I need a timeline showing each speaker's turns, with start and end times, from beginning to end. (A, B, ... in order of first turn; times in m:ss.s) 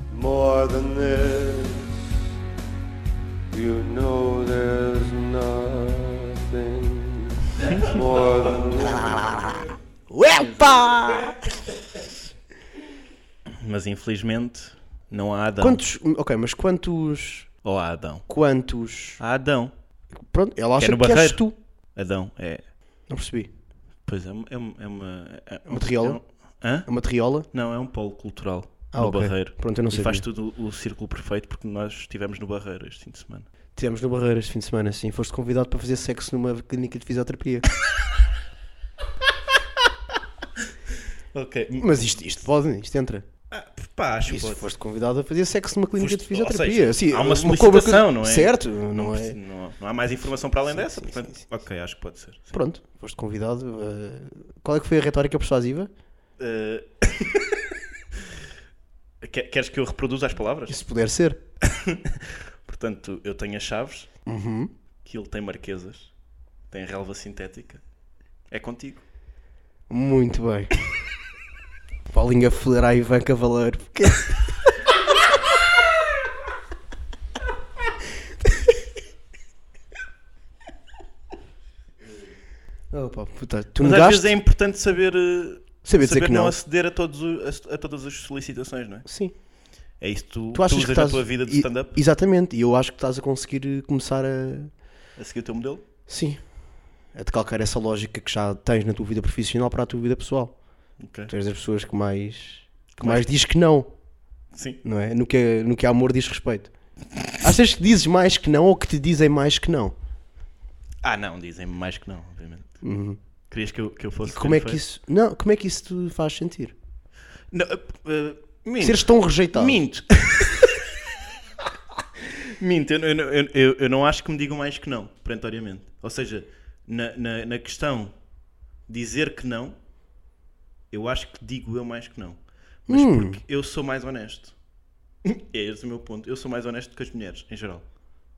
0:00.1-0:02.0 A
0:03.5-0:09.3 A
0:07.6-0:07.9 B
0:08.9-0:11.5 C
0:13.5-0:15.8 B
0:15.6-0:17.5 C
0:17.6-0:18.2 B
0:18.3-0:19.2 C
0:19.2-0:19.7 B
0:20.3-0:21.6 C
0:20.8-0:21.4 B
0:22.0-0:22.6 B
0:23.1-0:23.5 C
0:24.1-0:26.9 B
0:25.7-0:26.2 C
0:26.9-0:27.5 C
0:27.5-0:33.5 B
0:28.9-0:30.3 C
0:33.8-0:37.7 C
0:40.6-0:41.9 B
0:41.8-0:43.3 C
0:43.5-0:44.7 B
0:44.3-0:49.4 C
0:46.0-0:52.6 B
0:50.7-0:51.4 C
0:52.5-0:55.9 C
0:56.4-0:58.4 B
0:59.2-1:00.8 B
1:00.7-1:01.4 C
1:01.6-1:04.1 B
1:04.3-1:04.7 C
1:05.0-1:06.1 B
1:06.7-1:07.8 B
1:08.5-1:09.0 B
1:09.9-1:10.8 C
1:12.1-1:14.5 C
1:22.9-1:24.4 C
1:23.8-1:29.1 B
1:25.8-1:26.6 C
1:29.1-1:29.3 C
1:30.0-1:32.0 B
1:30.5-1:34.7 C
1:35.2-1:35.8 B
1:36.1-1:36.4 C
1:37.1-1:40.6 C
1:41.0-1:41.3 B
1:41.3-1:43.9 C
1:43.0-1:43.3 B
1:44.5-1:44.8 B
1:44.8-1:46.7 C
1:47.4-1:49.9 C
1:51.0-1:52.8 B
1:52.8-1:53.2 C
1:53.5-1:54.8 B
1:54.2-1:56.7 C
1:57.5-2:01.1 B
1:58.8-1:59.8 C
2:02.2-2:08.1 B
2:08.9-2:09.8 B
2:10.9-2:14.6 B
2:12.9-2:13.4 C
2:15.2-2:17.8 B